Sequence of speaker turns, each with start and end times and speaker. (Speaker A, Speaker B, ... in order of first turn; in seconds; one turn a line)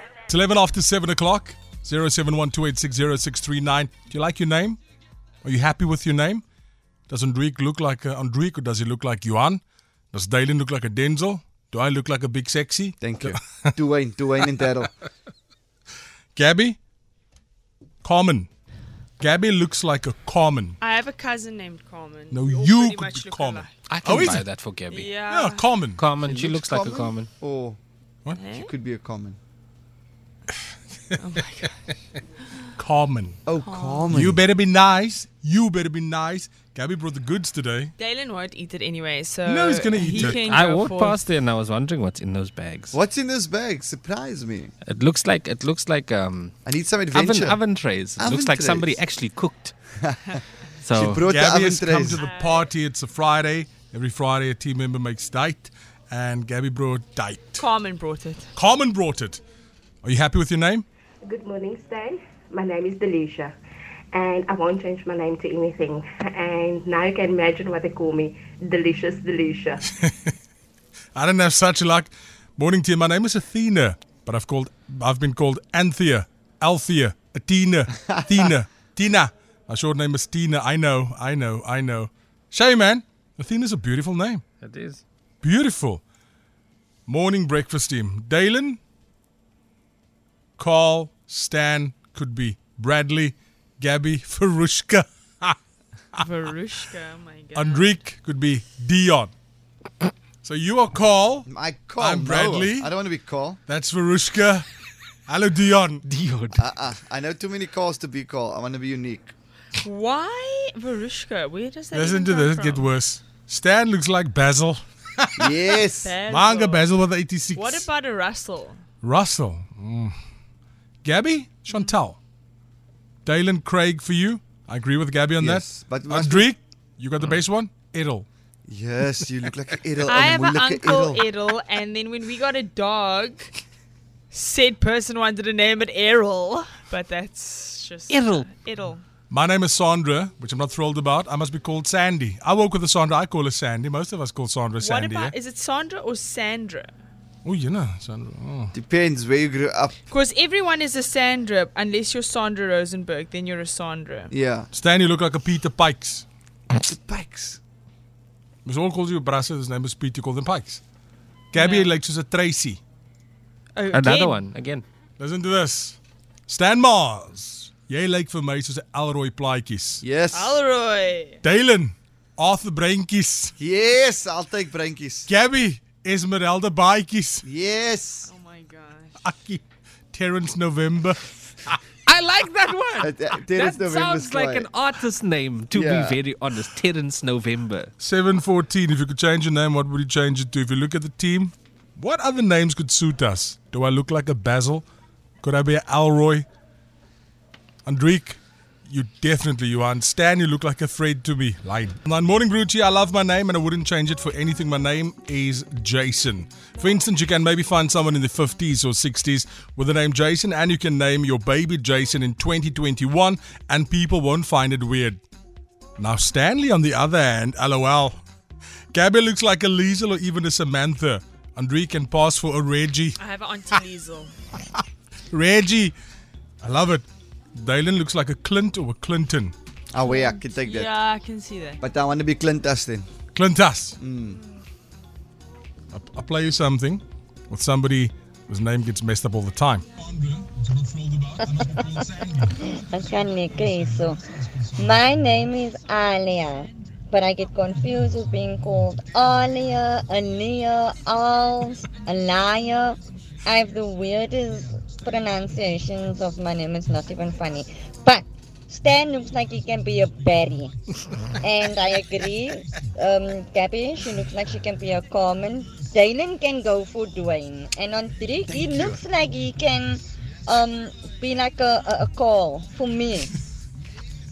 Speaker A: 0.3-4.8
Speaker A: 5.4-6.4
Speaker A: 7.1-9.6
Speaker A: 10.1-13.7
Speaker B: 13.0-14.9
Speaker A: 16.3-16.8
Speaker A: 18.0-18.5
Speaker A: 19.2-20.8
Speaker C: 20.8-23.7
Speaker A: 22.3-24.4
Speaker D: 23.8-25.1
Speaker C: 24.9-25.7
Speaker A: 25.3-26.1
Speaker D: 26.0-27.3
Speaker B: 26.2-27.8
Speaker C: 28.4-28.7
Speaker B: 28.6-29.4
Speaker C: 31.2-31.7
Speaker A: 32.8-33.4
Speaker B: 33.5-34.4
Speaker C: 33.6-34.1
Speaker A: 34.1-37.9
Speaker C: 38.0-41.2
Speaker A: 39.4-40.4
Speaker D: 40.2-43.0
Speaker B: 42.9-44.7
Speaker D: 44.9-46.5
Speaker B: 46.7-47.6
Speaker D: 47.1-49.7
Speaker B: 48.2-49.0
Speaker B: 50.0-50.4
Speaker D: 50.8-51.2
Speaker B: 50.9-52.2
Speaker A: 51.2-57.6
Speaker C: 52.1-52.7
Speaker C: 57.6-58.5
Speaker A: 58.5-59.4
Speaker A: 60.0-60.9
Speaker E: 61.2-63.5
Speaker E: 64.1-69.8
Speaker A: 70.0-70.3
Speaker A: 71.2-84.4
Speaker B: 78.0-78.5
Speaker D: 84.6-85.0
Speaker A: 85.4-86.0
Speaker A: 87.1-88.8
Speaker A: 90.6-95.6
Speaker C: 96.2-98.0
Speaker A: 97.5-99.3
Speaker A: 100.4-102.9
Speaker B: 101.5-103.6
Speaker A: 103.7-104.7
Speaker A: 105.3-106.0
Speaker D: 106.0-106.6
Speaker B: 106.5-109.3
Speaker C: 109.8-112.9
Speaker A: 111.9-115.6
Speaker B: 115.4-116.2
Speaker C: 116.0-117.0
Speaker A: 116.3-117.9
Speaker C: 117.5-118.8
Speaker A: 119.0-120.1
Speaker A: 121.0-122.2
Speaker C: 121.7-122.0
Speaker A: 123.2-128.3
Speaker B: 125.4-126.5
Speaker B: 128.7-131.2
Speaker C: 130.1-133.5
Speaker C: 134.3-139.0
Speaker D: 138.1-138.5
Speaker A: 139.3-145.3
Speaker C: 144.8-146.9
Speaker A: 147.4-148.7
Speaker B: 148.7-150.0
Speaker C: 150.1-154.3
Speaker B: 154.3-154.7
Speaker A: 154.7-156.2
Speaker B: 156.8-157.6
Speaker A: 158.7-160.8
Speaker A: 161.5-162.8
Speaker C: 161.5-162.0
Speaker C: 163.8-164.4
Speaker D: 163.9-164.8
Speaker A: 165.2-170.0
Speaker B: 170.0-170.6
Speaker C: 170.3-171.4
Speaker A: 171.4-173.5
Speaker B: 173.6-175.3
Speaker A: 175.3-177.4
Speaker B: 177.4-178.3
Speaker C: 178.2-179.1
Speaker A: 179.2-179.6
Speaker A: 180.1-181.8
Speaker D: 182.1-187.9
Speaker B: 183.0-184.7
Speaker B: 185.7-186.2
Speaker A: 188.0-194.9
Speaker A: 195.4-196.5
Speaker A: 197.9-215.2
Speaker A: 216.0-218.2
Speaker A: 218.9-223.2
Speaker C: 223.2-224.3
Speaker A: 225.3-226.0
Speaker A: 226.6-229.6
Speaker B: 229.9-230.9
Speaker C: 230.0-231.8
Speaker B: 231.8-233.1
Speaker A: 233.3-234.0
Speaker B: 234.0-234.4
Speaker A: 235.9-242.5
Speaker F: 242.4-244.2
Speaker F: 244.8-260.8
Speaker F: 261.4-273.3